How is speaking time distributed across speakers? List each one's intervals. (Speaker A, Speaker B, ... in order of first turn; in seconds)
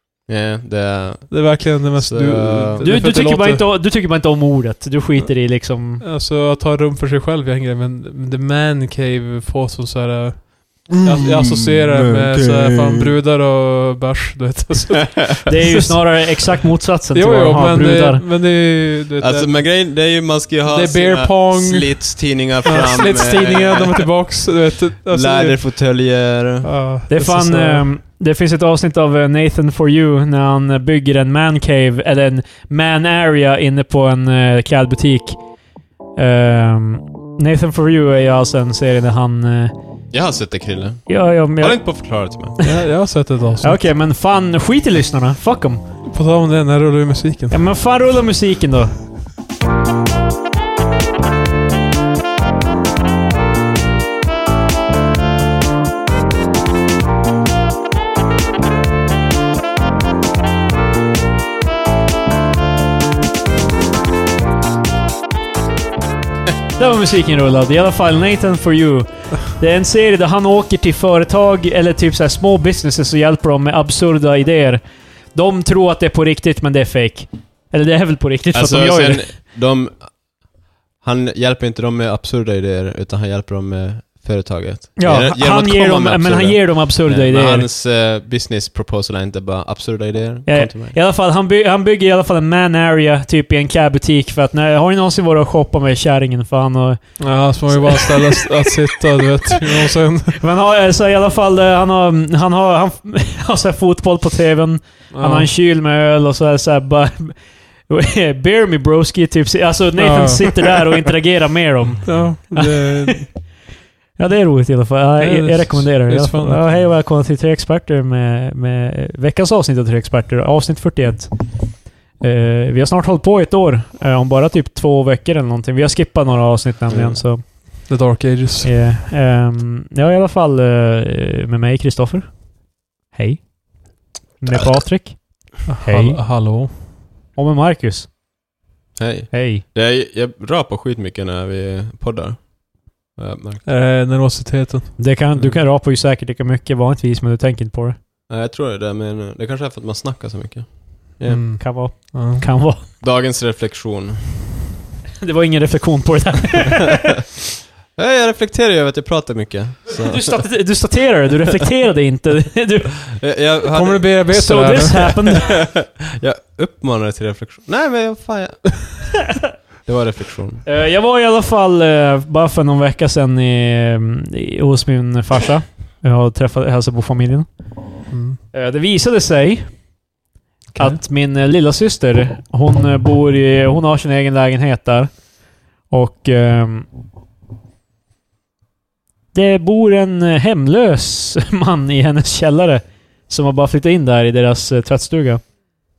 Speaker A: 0.3-2.9, 10.9-13.1, 19.2-24.1, 25.1-26.7, 40.1-42.5, 78.5-80.1, 81.0-90.9, 126.9-127.2, 138.9-143.7, 148.3-151.5, 153.0-154.6, 157.9-160.5, 163.1-164.2, 164.9-169.1, 169.8-170.6
Speaker B: 1.3-3.7, 6.0-16.0, 17.1-19.8, 20.6-25.6, 26.6-27.8, 42.6-43.8, 46.1-47.6, 97.2-100.4, 105.1-105.5, 110.0-110.5, 112.0-113.2, 115.2-116.8, 127.8-128.8, 135.7-136.8, 143.6-145.5, 151.3-152.4, 163.7-164.9, 178.1-178.4, 180.7-181.0
Speaker C: 2.8-6.0, 15.5-18.2, 27.1-35.4, 36.2-39.7, 41.1-42.8, 43.6-45.8, 47.5-48.9, 66.8-79.3, 85.0-87.7, 90.5-98.5, 100.4-113.3, 114.2-127.9, 128.6-136.2, 137.3-138.1, 139.3-139.6, 145.0-148.0, 151.6-152.8, 155.2-157.2, 160.0-163.1, 164.3-165.6, 170.7-177.4, 178.5-180.0, 180.8-186.9, 189.3-195.4